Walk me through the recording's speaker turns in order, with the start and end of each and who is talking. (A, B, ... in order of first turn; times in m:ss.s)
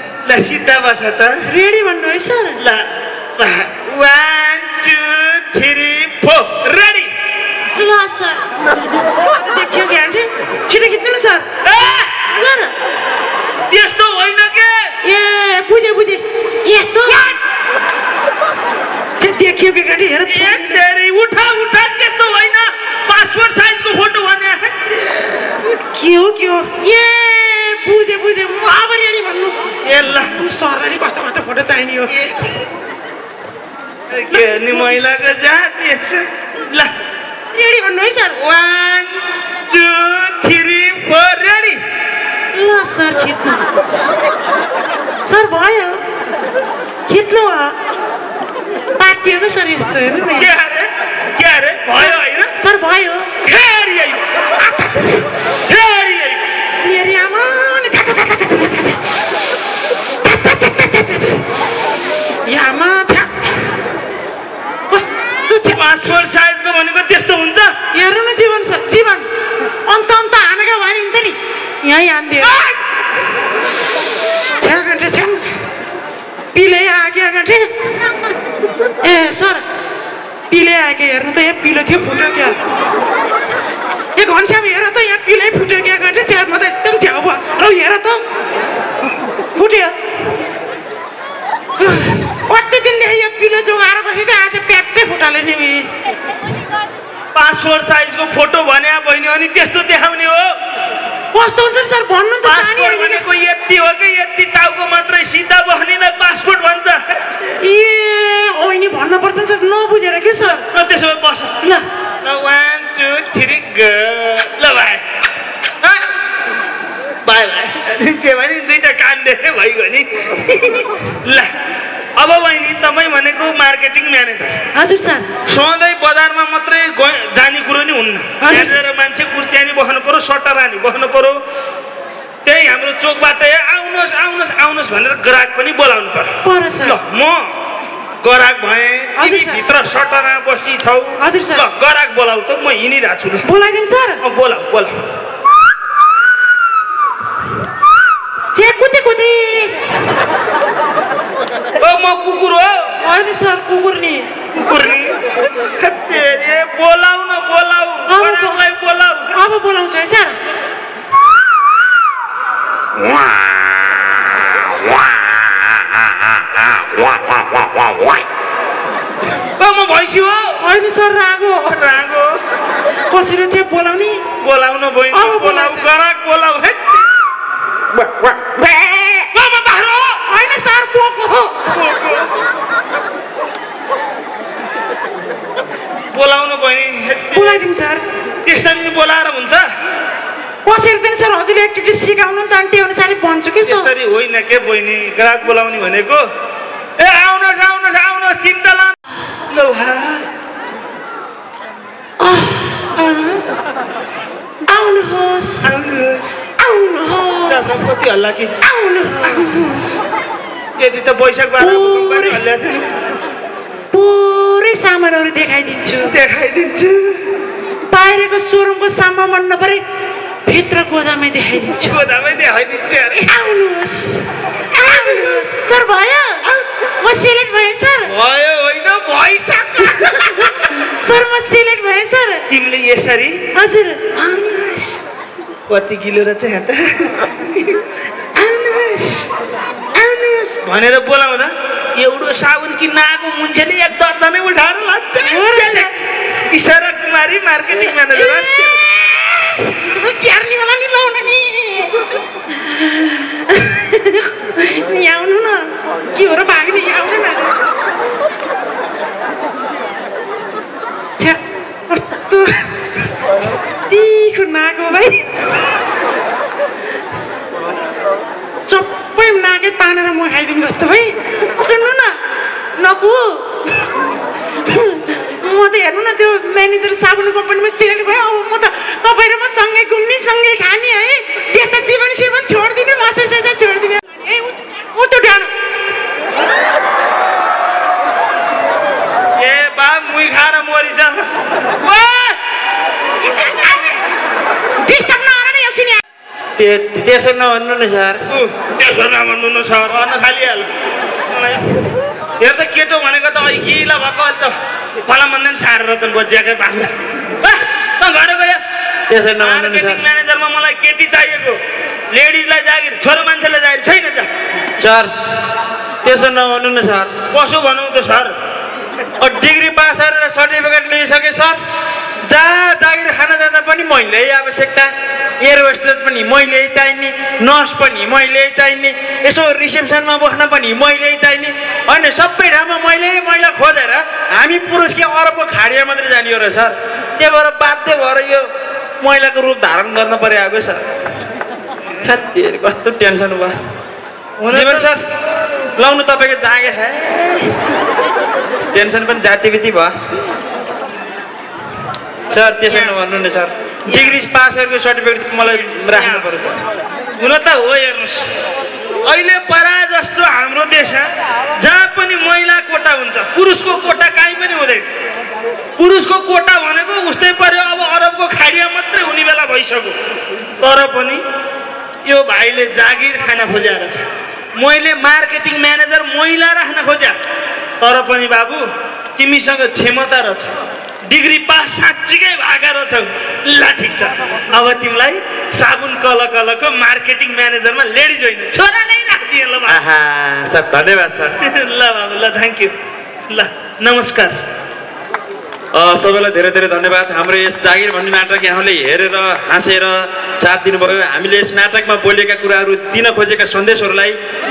0:00.2-0:01.4 A
0:01.4-0:02.6 B
0:02.6-0:07.1 A
0:07.7-0:08.5 B
0:09.3-0:11.5 B
0:11.6-0:12.1 A
0:12.1-0:12.7 B
0:13.7-0:14.9 A
0:15.0-0:17.3 B
0:19.2-0:20.8 B
0:20.3-0:25.6 A
0:25.9-0:29.6 B
0:29.8-0:30.4 A
0:30.4-0:32.2 B
0:32.1-0:32.5 A
0:34.1-0:36.9 A
0:34.4-0:35.0 B
0:37.5-0:38.4 B
0:38.4-0:41.8 A
0:42.5-0:43.6 B
0:45.2-0:46.0 B
0:47.1-0:47.8 B
0:49.0-0:50.5 B
0:50.3-0:52.5 A
0:52.0-0:53.4 B
0:53.4-0:54.2 A
0:54.6-0:55.2 B
0:55.7-0:56.4 A
0:56.8-0:59.0 B
1:00.2-1:01.4 B
1:02.4-1:03.7 B
1:04.9-1:05.9 B
1:05.7-1:07.7 A
1:07.9-1:09.3 B
1:09.8-1:12.6 B
1:14.6-1:15.5 B
1:16.5-1:17.7 B
1:19.0-1:19.6 B
1:20.5-1:22.6 B
1:24.2-1:28.2 B
1:29.5-1:29.9 B
1:31.8-1:35.9 B
1:37.3-1:40.5 A
1:41.3-1:43.2 B
1:42.4-1:47.1 A
1:47.6-1:50.6 B
1:50.4-1:51.6 A
1:52.2-1:55.0 A
1:57.2-2:01.5 A
2:02.2-2:04.6 A
2:04.7-2:05.3 B
2:05.5-2:11.4 A
2:08.4-2:08.8 B
2:12.4-2:17.5 A
2:16.4-2:17.0 B
2:18.2-2:23.4 A
2:19.2-2:19.6 B
2:21.2-2:21.6 B
2:23.4-2:24.2 B
2:24.2-2:24.9 A
2:28.5-2:29.7 B
2:31.8-2:32.9 A
2:33.0-2:34.3 B
2:34.5-2:35.2 A
2:35.8-2:39.4 A
2:38.1-2:38.6 B
2:39.3-2:40.3 B
2:49.6-2:50.6 A
2:50.6-2:51.8 B
2:51.7-2:52.4 A
2:53.1-2:54.2 B
2:54.4-2:57.1 A
2:55.1-2:55.9 B
2:59.1-3:00.2 A
3:00.2-3:01.7 B
3:01.7-3:02.3 A
3:06.1-3:07.6 A
3:07.3-3:08.0 B
3:08.4-3:09.7 A
3:10.6-3:13.9 B
3:13.6-3:16.3 A
3:17.0-3:19.0 A
3:19.5-3:20.3 A
3:22.2-3:22.9 B
3:22.9-3:23.4 A
3:24.7-3:25.7 B
3:25.6-3:26.2 A
3:26.6-3:27.9 B
3:27.5-3:28.5 A
3:28.6-3:29.8 B
3:29.2-3:29.7 A
3:30.8-3:32.9 A
3:31.6-3:32.4 B
3:33.9-3:36.2 B
3:36.1-3:37.3 A
3:37.9-3:39.8 B
3:40.4-3:42.0 B
3:41.8-3:43.4 A
3:43.3-3:46.5 B
3:47.0-3:48.1 B
3:48.0-3:50.7 A
3:50.0-3:52.4 B
3:52.5-3:53.4 A
3:53.5-3:54.0 B
3:54.1-3:55.0 A
3:55.7-3:57.8 A
3:58.3-3:59.3 A
3:59.9-4:05.9 A
4:05.2-4:06.0 B
4:06.5-4:08.8 A
4:08.1-4:12.0 B
4:12.5-4:17.5 B
4:21.2-4:22.7 B
4:23.9-4:25.2 B
4:28.7-4:32.2 B
4:32.8-4:33.8 B
4:34.6-4:45.5 B
4:49.4-4:52.4 A
4:53.2-4:54.0 B
4:54.8-4:56.0 B
4:56.6-4:58.2 C
4:58.3-5:00.7 A
5:01.3-5:01.8 A
5:02.4-5:04.5 A
5:05.0-5:08.6 A
5:09.1-5:10.0 C
5:09.4-5:11.6 A
5:12.1-5:14.3 A
5:14.8-5:15.1 C
5:16.0-5:17.1 C
5:17.3-5:18.3 A
5:19.2-5:21.6 C
5:22.3-5:40.8 C
5:42.0-5:43.6 C
5:44.4-5:44.9 A
5:44.5-5:45.0 C
5:45.8-5:47.5 C
5:48.7-5:49.9 C
5:52.3-5:56.6 C
5:52.7-5:53.0 A
5:53.8-5:54.2 A
5:55.8-5:56.3 A
5:57.2-5:58.3 A
5:59.0-6:04.9 A
6:05.8-6:09.9 A
6:10.6-6:11.2 A
6:12.0-6:14.0 A
6:14.6-6:17.2 A
6:17.8-6:20.5 A
6:21.1-6:29.8 A
6:29.7-6:31.4 C
6:31.4-6:32.7 A
6:33.3-6:34.4 A
6:35.7-6:44.2 C